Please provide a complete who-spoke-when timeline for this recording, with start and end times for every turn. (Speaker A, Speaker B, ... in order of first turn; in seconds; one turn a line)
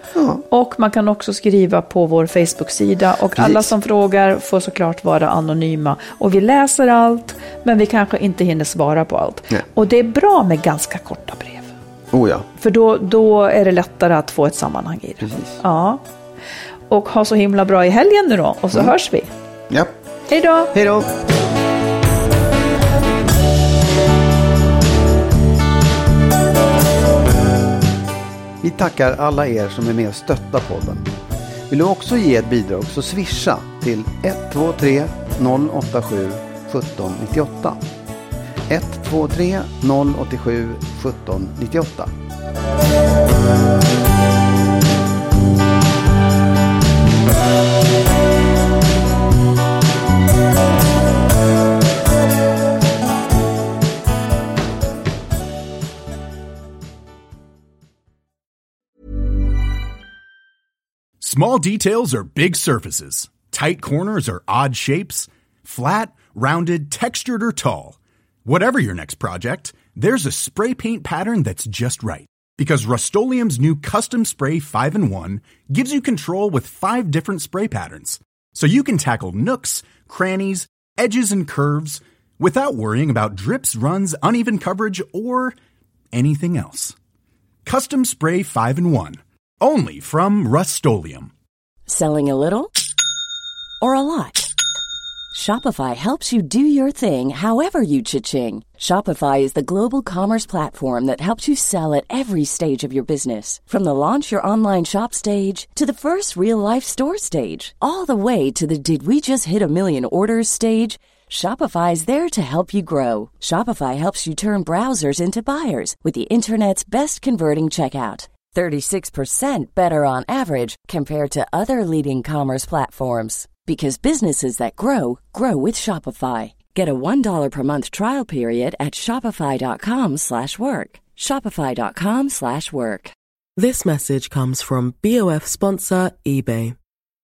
Speaker A: 0.1-0.4
Speaker B: 0.5-11.7
Speaker A: 3.4-3.7
Speaker A: 12.1-12.5
Speaker B: 12.6-16.0
Speaker A: 15.2-15.6
Speaker B: 16.9-19.3
Speaker B: 20.3-20.7
Speaker A: 20.7-21.1
Speaker A: 28.6-31.1
Speaker A: 31.7-37.8
Speaker A: 38.7-42.1
Speaker C: 61.2-85.5
Speaker C: 86.1-87.0
Speaker C: 87.6-91.3
Speaker D: 91.9-92.7
Speaker D: 93.8-94.5
Speaker D: 95.3-133.1
Speaker E: 133.6-136.7